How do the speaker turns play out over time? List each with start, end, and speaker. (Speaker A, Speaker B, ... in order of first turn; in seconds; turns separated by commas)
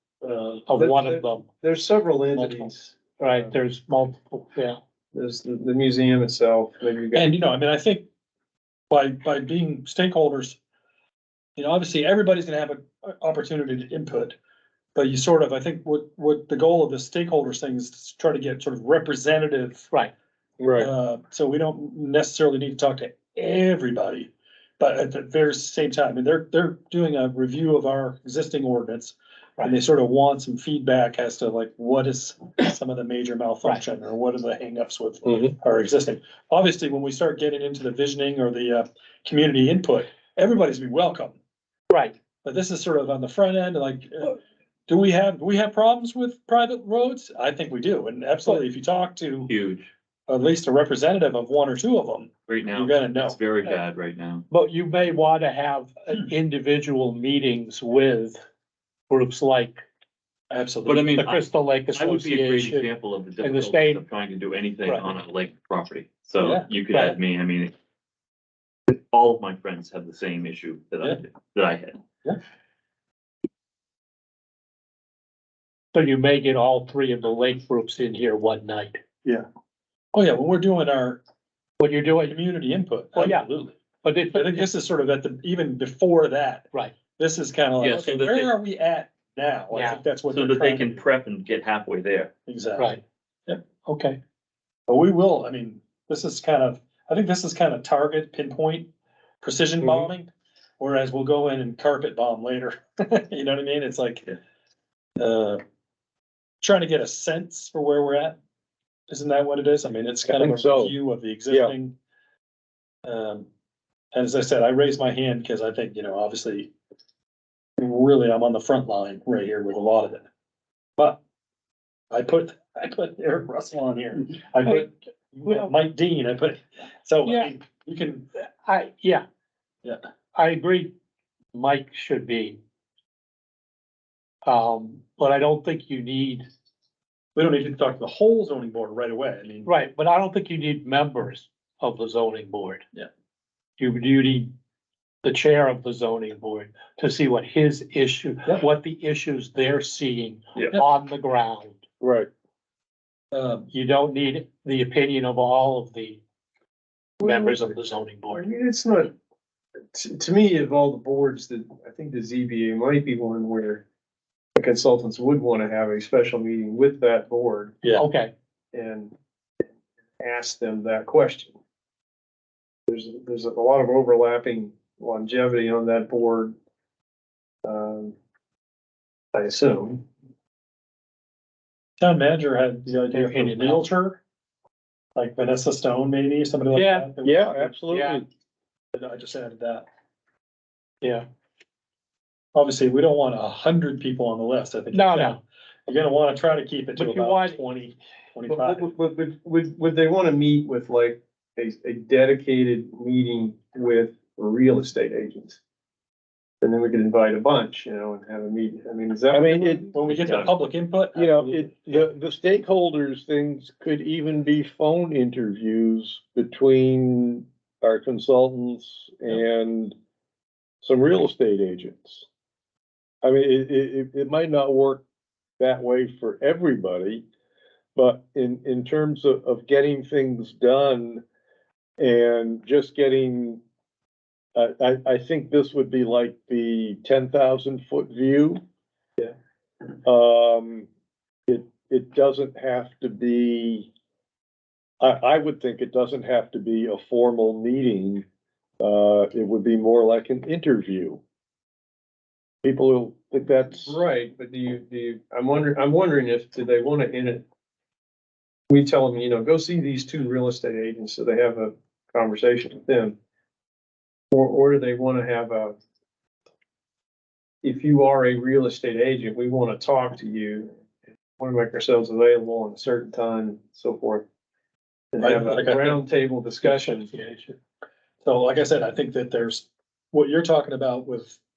Speaker A: 0.2-3.5, Speaker B: 0.7-1.5, Speaker B: 2.4-2.7, Speaker B: 3.2-4.8, Speaker A: 5.1-7.3, Speaker C: 7.1-8.1, Speaker C: 8.9-10.6, Speaker C: 11.6-14.4, Speaker C: 14.9-19.9, Speaker D: 20.6-20.9, Speaker C: 20.8-41.4, Speaker A: 35.2-35.5, Speaker B: 41.9-42.2, Speaker C: 42.4-49.5, Speaker E: 49.5-49.9, Speaker C: 50.3-53.4, Speaker E: 52.5-54.4, Speaker B: 54.5-58.4, Speaker B: 59.1-59.8, Speaker C: 60.5-61.3, Speaker E: 60.9-67.7, Speaker B: 61.2-64.0, Speaker B: 64.8-65.1, Speaker C: 66.4-67.2, Speaker E: 68.9-72.0, Speaker B: 75.9-79.0, Speaker C: 80.1-81.2, Speaker B: 81.8-82.4, Speaker C: 82.2-83.8, Speaker B: 83.2-83.5, Speaker B: 84.0-84.7, Speaker C: 84.3-91.0, Speaker E: 87.8-88.5, Speaker B: 89.7-90.0, Speaker E: 90.3-92.3, Speaker C: 92.5-93.0, Speaker B: 92.8-93.0, Speaker B: 93.8-94.2, Speaker C: 94.9-98.9, Speaker C: 99.4-104.3, Speaker A: 99.8-100.1, Speaker C: 105.2-105.6, Speaker C: 106.6-108.4, Speaker C: 109.1-112.0, Speaker D: 110.3-111.0, Speaker C: 113.0-113.5, Speaker C: 114.1-116.7, Speaker C: 117.8-120.2, Speaker C: 122.1-128.3, Speaker B: 125.5-125.7, Speaker B: 127.2-127.5, Speaker B: 128.6-129.2, Speaker B: 130.3-130.9, Speaker B: 131.5-132.6, Speaker B: 134.5-136.5, Speaker C: 137.3-139.7, Speaker B: 139.7-142.8, Speaker B: 143.8-144.5, Speaker B: 145.2-151.8, Speaker D: 152.0-152.3, Speaker C: 153.3-153.7, Speaker B: 153.7-156.2, Speaker A: 157.2-157.7, Speaker B: 157.2-158.4, Speaker A: 158.3-159.1, Speaker A: 159.9-163.8, Speaker A: 164.6-167.8, Speaker B: 167.9-168.3, Speaker A: 168.7-169.1, Speaker A: 170.2-171.6, Speaker A: 172.9-176.6, Speaker A: 177.7-178.2, Speaker A: 179.3-180.1, Speaker C: 182.0-184.2, Speaker B: 183.1-183.9, Speaker C: 185.2-187.8, Speaker B: 186.7-187.1, Speaker D: 187.2-188.3, Speaker B: 187.9-188.2, Speaker C: 188.9-189.8, Speaker C: 192.6-198.9, Speaker B: 194.9-195.4, Speaker B: 197.0-197.6, Speaker A: 198.5-205.6, Speaker A: 206.6-210.0, Speaker D: 209.3-209.9, Speaker C: 209.9-212.0, Speaker E: 210.1-210.6, Speaker D: 211.2-219.9, Speaker D: 220.8-222.3, Speaker D: 223.2-225.0, Speaker D: 225.6-227.2, Speaker D: 228.0-231.2, Speaker D: 232.0-233.6, Speaker D: 234.6-238.6, Speaker D: 240.0-240.9, Speaker D: 241.5-243.9, Speaker D: 245.0-248.2, Speaker D: 248.8-251.2, Speaker D: 252.6-254.0, Speaker A: 253.8-257.5, Speaker A: 258.7-263.2, Speaker A: 264.3-265.8, Speaker A: 267.6-270.8, Speaker A: 271.4-274.3, Speaker A: 275.1-277.1, Speaker C: 275.2-276.1, Speaker C: 276.6-277.1, Speaker B: 277.2-277.5, Speaker C: 278.2-281.4